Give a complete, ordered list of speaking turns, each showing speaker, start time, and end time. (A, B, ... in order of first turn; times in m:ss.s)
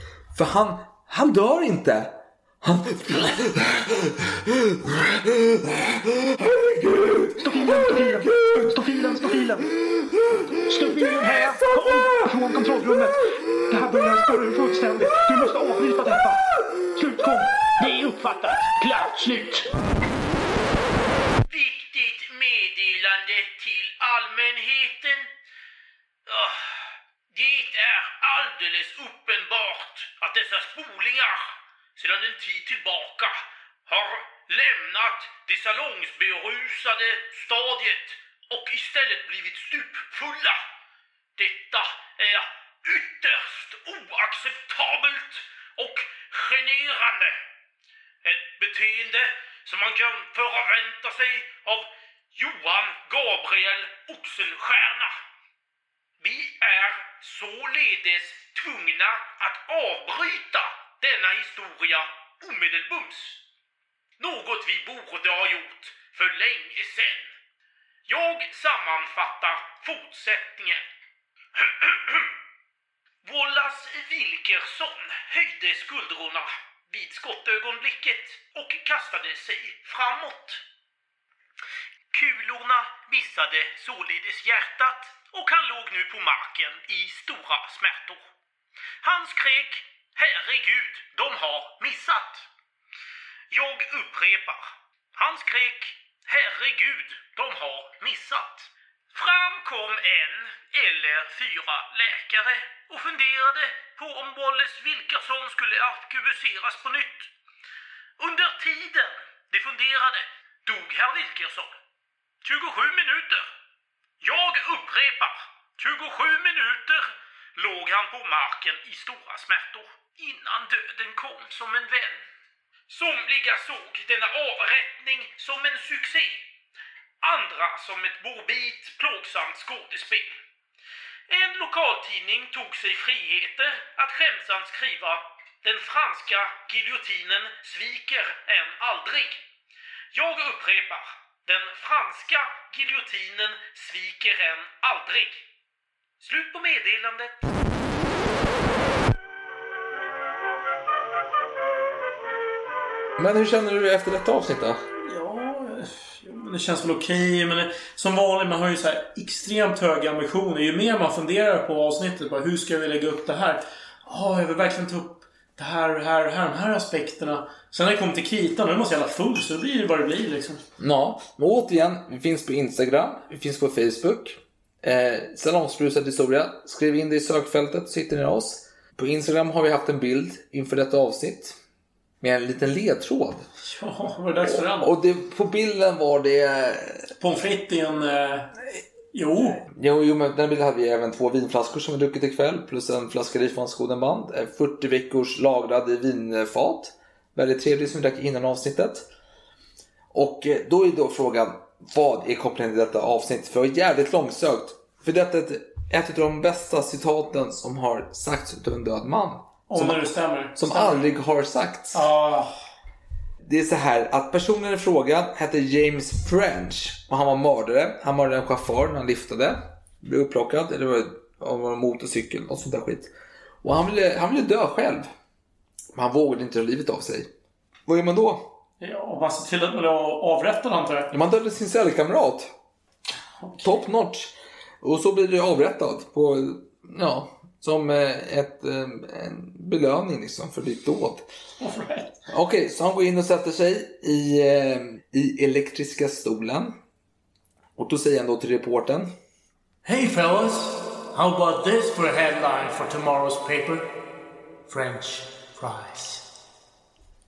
0:00.3-0:07.4 A
0:07.4-0:09.7 B
0:10.7-0:16.4 B
0:17.0-0:19.6 B
0:19.3-0:19.6 C
0:21.5-0:25.3 C
0:26.3-0:26.8 C
0:27.3-0:40.6 C
0:41.4-0:47.4 C
0:48.2-0:55.2 C
0:56.2-1:03.4 C
1:04.2-1:07.3 C
1:08.1-1:10.8 C
1:11.6-1:12.3 C
1:13.2-1:20.6 C
1:22.1-1:28.3 C
1:29.0-1:32.5 C
1:33.5-1:47.3 C
1:48.2-1:51.8 C
1:52.4-1:53.5 C
1:54.2-2:02.2 C
2:02.9-2:06.4 C
2:07.2-2:10.4 C
2:11.3-2:19.4 C
2:20.1-2:25.4 C
2:26.2-2:27.4 C
2:33.2-2:34.8 A
2:35.0-2:50.6 D
2:50.8-3:01.6 A
3:02.2-3:03.4 A
3:03.7-3:04.9 D
3:04.4-3:07.1 A
3:07.2-3:08.6 D
3:09.1-3:09.6 D
3:09.6-3:19.1 A
3:20.1-3:32.1 A
3:29.7-3:31.1 D
3:31.9-3:32.5 D
3:33.4-3:43.1 A
3:43.6-3:45.1 A
3:46.0-3:47.3 A
3:47.9-3:48.5 A
3:48.8-3:51.1 D
3:51.1-3:52.5 A
3:53.6-4:01.3 A
4:01.6-4:02.2 D
4:02.3-4:06.8 A
4:07.8-4:09.1 A
4:09.8-4:13.9 D
4:14.7-4:16.2 D